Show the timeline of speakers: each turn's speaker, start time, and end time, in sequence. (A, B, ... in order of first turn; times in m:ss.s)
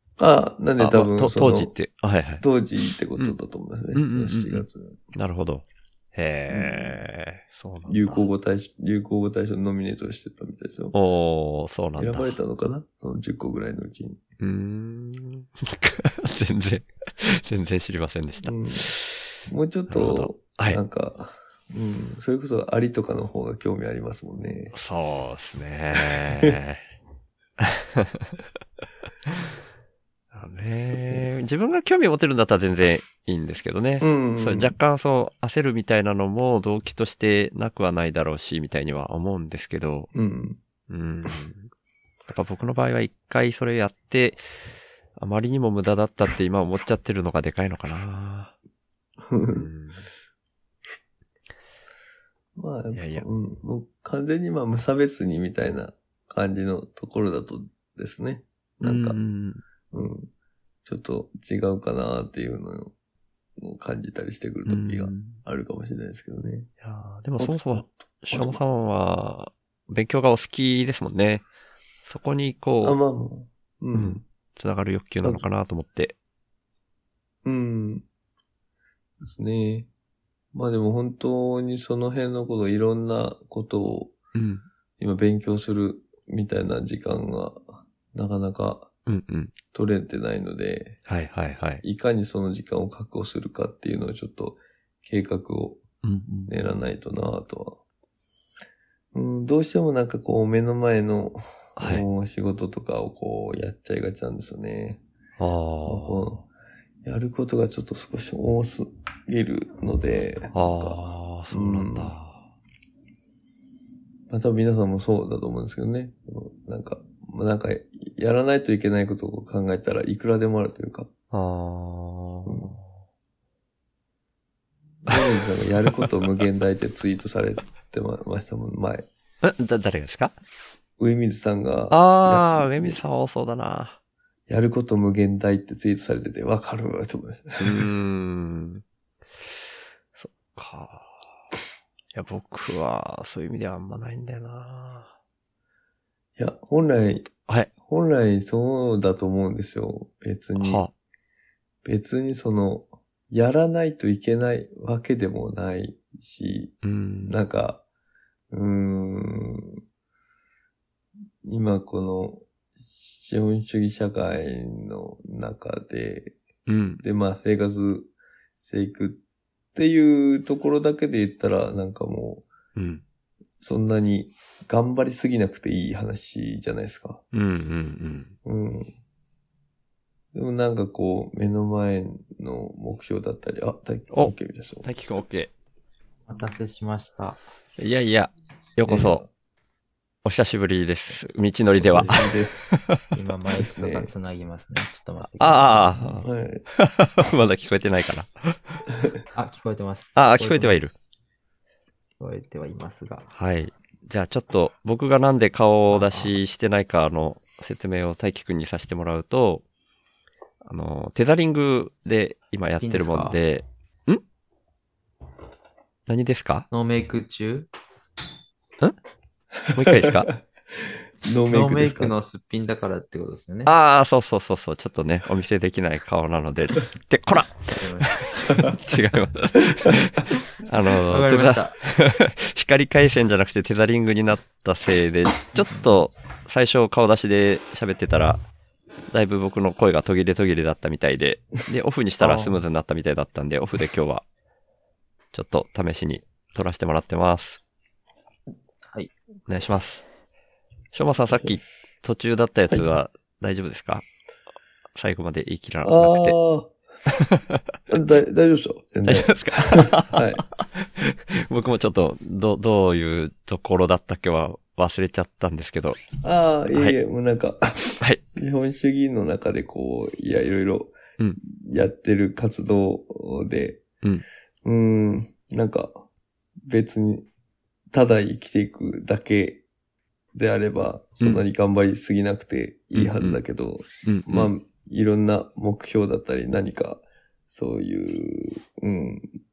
0:00.2-0:01.7 A
0:00.8-0:02.4 B
0:02.4-0:05.0 A
0:03.9-0:08.2 B
0:06.5-0:07.0 A
0:07.9-0:10.9 A
0:10.9-0:12.3 B
0:12.0-0:14.2 A
0:14.4-0:19.2 B
0:18.4-0:18.9 A
0:19.5-0:24.7 A
0:19.9-0:20.8 B
0:24.7-0:26.8 B
0:26.0-0:26.6 A
0:27.6-0:28.4 B
0:30.3-0:40.1 B
0:30.8-0:31.2 A
0:34.0-0:34.7 A
0:40.1-0:40.6 A
0:40.9-0:41.7 B
0:42.3-0:44.4 B
0:45.2-0:48.5 B
0:49.3-0:49.7 A
0:49.5-0:50.0 B
0:52.6-0:59.2 A
0:52.9-0:53.2 B
0:58.8-0:59.6 B
0:59.9-1:00.3 A
1:00.8-1:02.9 A
1:03.6-1:06.7 A
1:04.6-1:05.4 B
1:06.8-1:11.4 B
1:07.4-1:08.6 A
1:12.0-1:13.0 B
1:12.8-1:14.2 A
1:13.9-1:16.1 B
1:17.4-1:18.0 A
1:19.2-1:19.9 A
1:20.5-1:24.2 A
1:24.3-1:24.6 B
1:25.0-1:28.9 A
1:29.1-1:29.6 B
1:29.7-1:31.0 A
1:31.0-1:31.8 B
1:31.8-1:35.8 A
1:36.0-1:36.5 B
1:36.5-1:37.8 A
1:39.1-1:45.0 A
1:41.8-1:42.0 B
1:45.4-1:46.2 B
1:45.8-1:46.4 A
1:47.0-1:51.0 A
1:50.5-1:52.4 B
1:51.5-1:52.1 A
1:54.3-2:01.1 A
2:01.3-2:02.8 B
2:02.4-2:02.7 A
2:05.0-2:09.1 A
2:09.4-2:10.3 B
2:11.0-2:13.0 A
2:11.9-2:14.0 B
2:14.5-2:17.9 A
2:17.6-2:18.8 B
2:20.2-2:21.3 B
2:22.1-2:25.1 B
2:26.4-2:27.3 A
2:27.4-2:27.7 B
2:27.8-2:30.8 A
2:30.6-2:30.9 B
2:31.8-2:36.7 A
2:36.8-2:37.4 B
2:37.2-2:37.8 A
2:38.5-2:39.8 A
2:41.4-2:46.4 A
2:46.7-2:47.0 B
2:47.0-2:49.2 A
2:49.7-2:52.5 A
2:52.8-2:53.0 B
2:53.6-2:57.2 A
2:57.3-2:58.3 B
2:58.4-2:58.9 A
3:00.3-3:04.9 A
3:04.1-3:05.5 B
3:06.3-3:07.4 C
3:07.8-3:09.2 B
3:08.8-3:09.2 A
3:10.2-3:13.0 B
3:11.8-3:12.8 A
3:13.1-3:16.2 C
3:13.5-3:14.1 A
3:15.4-3:18.8 B
3:16.2-3:16.6 A
3:19.3-3:20.8 C
3:20.2-3:20.9 B
3:22.2-3:23.2 C
3:23.3-3:29.6 B
3:25.9-3:26.3 C
3:30.6-3:34.2 B
3:32.8-3:33.4 C
3:36.1-3:36.7 B
3:36.7-3:37.7 C
3:39.6-3:40.3 A
3:39.7-3:40.3 B
3:41.2-3:42.1 A
3:41.5-3:43.7 C
3:43.6-3:58.4 B
3:47.7-3:48.4 C
3:51.1-3:51.8 C
3:59.1-4:04.2 B
4:02.2-4:02.6 C
4:05.3-4:07.6 B
4:09.5-4:10.0 B
4:10.9-4:14.0 B
4:11.3-4:11.6 A
4:14.9-4:16.4 B
4:15.8-4:16.7 A
4:17.1-4:17.6 B
4:17.9-4:20.4 A
4:19.0-4:26.1 B
4:26.2-4:33.8 A
4:34.6-4:35.9 A
4:36.6-4:37.2 A
4:37.9-4:39.6 A
4:40.3-4:49.3 A
4:42.9-4:43.4 B
4:44.0-4:44.5 B